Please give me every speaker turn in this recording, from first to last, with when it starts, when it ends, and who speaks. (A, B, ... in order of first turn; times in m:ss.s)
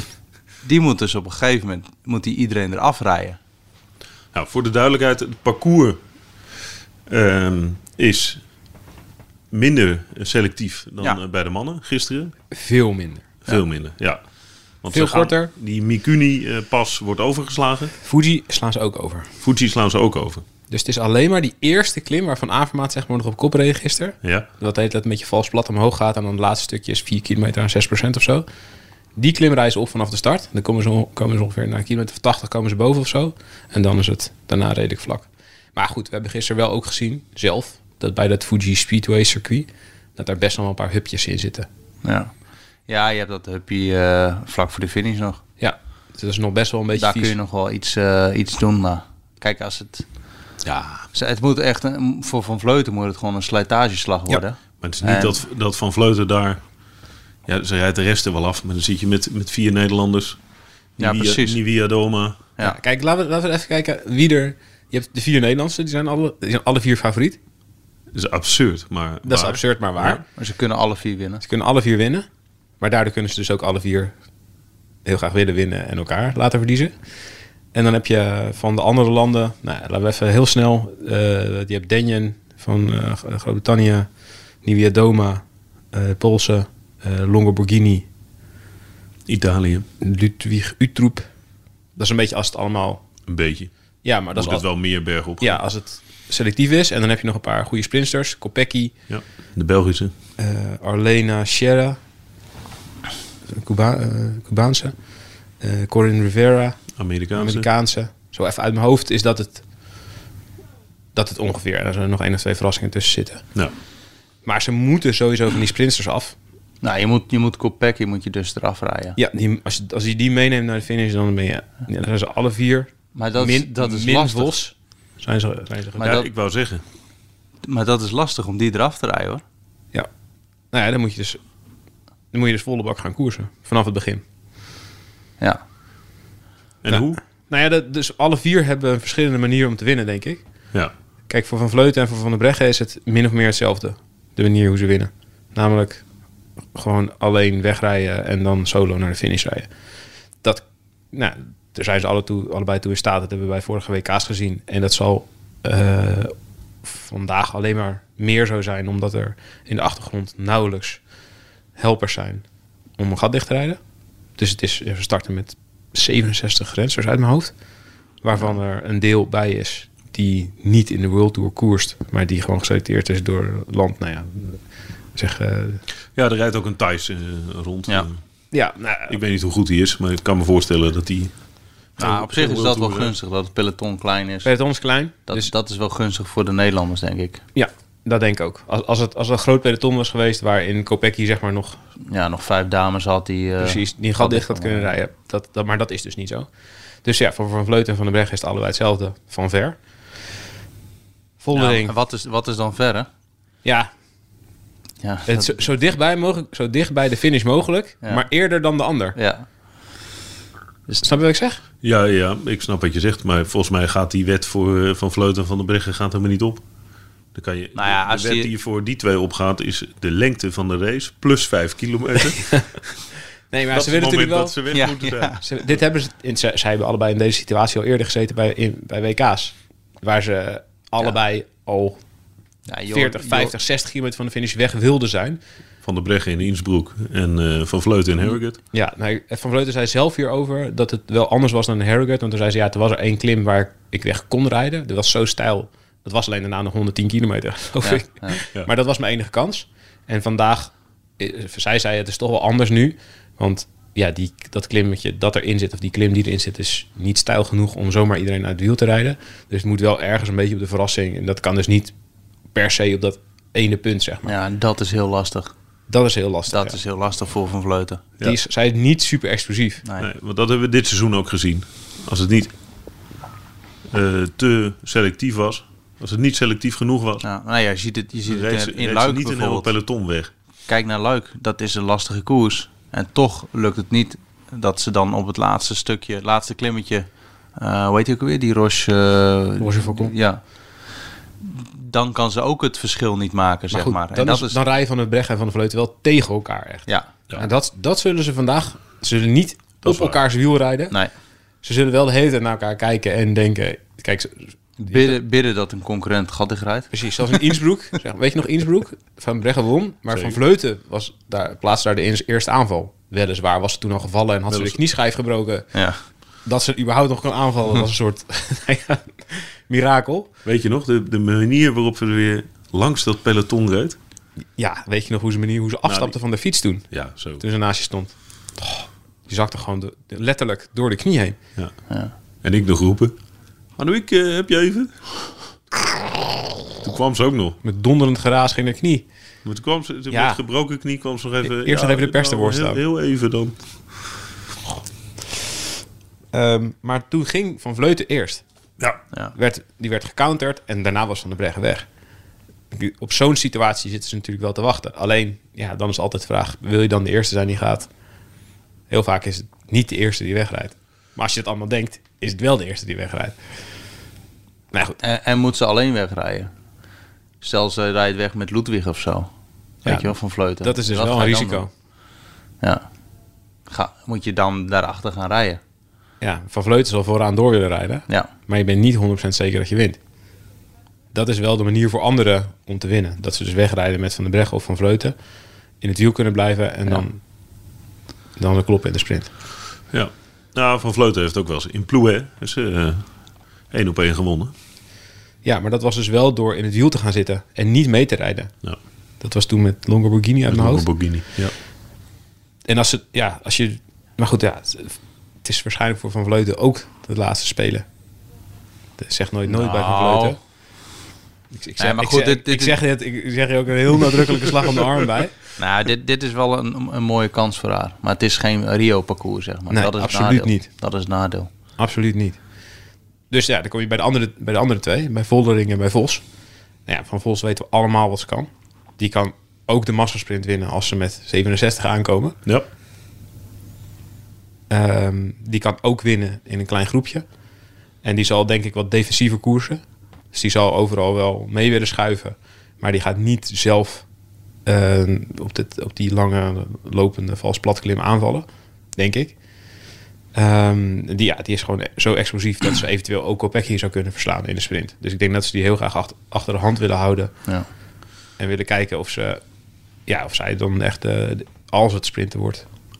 0:00.6-0:03.4 A
0:04.3-0:06.0 B
0:07.1-0:08.4 B
0:09.5-0:12.3 B
0:12.5-0:13.2 C
0:13.4-0:14.2 B
0:14.8-0:17.9 B
0:14.9-0:15.5 C
0:18.0-0:19.3 C
0:19.4-0:20.4 B
0:20.7-0:28.4 C
0:29.2-0:41.7 C
0:42.0-0:42.3 A
0:42.9-0:45.4 A
0:45.6-0:47.4 C
0:47.0-0:50.0 A
0:50.6-0:51.0 B
0:51.1-0:55.4 A
0:54.3-0:56.6 B
0:57.5-1:00.4 B
1:01.0-1:02.5 B
1:01.0-1:01.6 A
1:02.6-1:07.4 C
1:08.1-1:10.2 B
1:09.2-1:10.2 C
1:10.4-1:11.4 A
1:11.4-1:12.3 C
1:12.8-1:14.1 C
1:15.0-1:16.9 C
1:17.7-1:24.1 C
1:24.6-1:28.0 C
1:29.3-1:29.8 B
1:30.0-1:31.3 C
1:32.0-1:33.0 C
1:33.3-1:33.7 B
1:34.0-1:34.7 C
1:34.3-1:35.6 B
1:35.4-1:38.9 C
1:39.1-1:40.1 B
1:40.4-1:42.0 C
1:43.5-1:44.9 C
1:45.6-1:49.6 C
1:47.0-1:47.7 B
1:51.1-1:53.4 C
1:54.4-1:56.3 C
1:56.8-1:59.2 A
1:59.2-2:06.1 C
2:03.1-2:04.6 A
2:06.0-2:06.3 A
2:06.0-2:06.8 B
2:07.6-2:09.4 A
2:10.7-2:11.4 C
2:12.3-2:14.2 C
2:16.8-2:17.2 B
2:16.9-2:20.4 C
2:21.3-2:26.0 C
2:26.7-2:29.7 C
2:30.4-2:36.3 C
2:36.8-2:41.0 C
2:41.7-2:42.4 C
2:43.0-2:43.8 C
2:44.4-2:47.5 C
2:48.2-2:54.6 C
2:55.1-2:55.8 C
2:56.2-2:58.1 B
2:58.5-2:59.2 C
2:59.1-3:01.3 B
3:02.0-3:03.1 B
3:02.0-3:04.5 A
3:04.4-3:05.5 C
3:05.3-3:07.4 A
3:07.5-3:11.8 C
3:12.1-3:14.9 A
3:13.6-3:16.5 C
3:17.0-3:19.8 C
3:21.4-3:21.9 C
3:21.5-3:23.1 A
3:23.6-3:23.9 C
3:25.0-3:25.6 A
3:25.3-3:29.2 C
3:29.1-3:29.4 A
3:30.9-3:31.6 C
3:31.8-3:36.6 B
3:37.3-3:42.6 B
3:37.7-3:38.5 A
3:43.5-3:44.6 C
3:43.7-3:45.4 B
3:44.7-3:45.4 A
3:45.4-3:52.0 C
3:52.7-3:53.6 A
3:52.9-3:55.4 C
3:55.8-3:58.6 B
3:58.7-4:21.9 C
4:07.8-4:08.4 A
4:22.5-4:24.3 C
4:24.2-4:25.5 A
4:25.9-4:26.8 C
4:26.5-4:28.1 A
4:28.2-4:29.8 C
4:30.0-4:32.5 B
4:33.9-4:37.2 B
4:37.2-4:39.7 A
4:38.3-4:40.3 B
4:40.7-4:50.4 A
4:49.6-4:50.1 C
4:51.4-4:54.6 A
4:53.7-5:00.9 C
4:59.8-5:00.2 B
5:01.6-5:05.2 C
5:04.8-5:06.9 A
5:06.9-5:15.7 C
5:10.1-5:10.4 B
5:14.5-5:14.8 B
5:16.4-5:20.3 C
5:20.4-5:24.0 B
5:24.6-5:31.4 C
5:25.8-5:26.2 B
5:26.9-5:27.4 B
5:32.4-5:33.1 B
5:33.8-5:35.0 B
5:36.8-5:37.6 B
5:37.6-5:39.1 C
5:39.4-5:43.6 B
5:40.1-5:40.4 C
5:41.4-5:42.8 C
5:46.3-5:48.4 C
5:49.3-5:51.9 C
5:52.7-5:57.9 C
5:58.9-6:03.4 C
6:04.7-6:05.0 C
6:05.0-6:06.5 A
6:07.4-6:09.3 A
6:09.8-6:11.6 A
6:09.8-6:11.7 C
6:13.7-6:15.6 A
6:16.2-6:20.0 C
6:21.1-6:25.1 C
6:25.8-6:27.2 C
6:28.4-6:29.3 C
6:29.9-6:33.1 B
6:33.7-6:34.5 B
6:35.4-6:38.5 C
6:39.2-6:40.9 C
6:40.5-6:41.5 B
6:42.6-6:47.8 C
6:49.0-6:50.4 C
6:49.4-6:50.4 A
6:51.5-6:55.4 C
6:51.8-6:52.8 A
6:55.6-7:01.5 A
6:59.7-7:00.7 C
7:01.8-7:02.4 C
7:03.3-7:06.2 C
7:06.8-7:12.4 C
7:14.7-7:17.2 C
7:18.0-7:24.1 C
7:24.6-7:29.4 C
7:30.3-7:37.3 C
7:38.4-7:39.4 C
7:40.0-7:42.6 C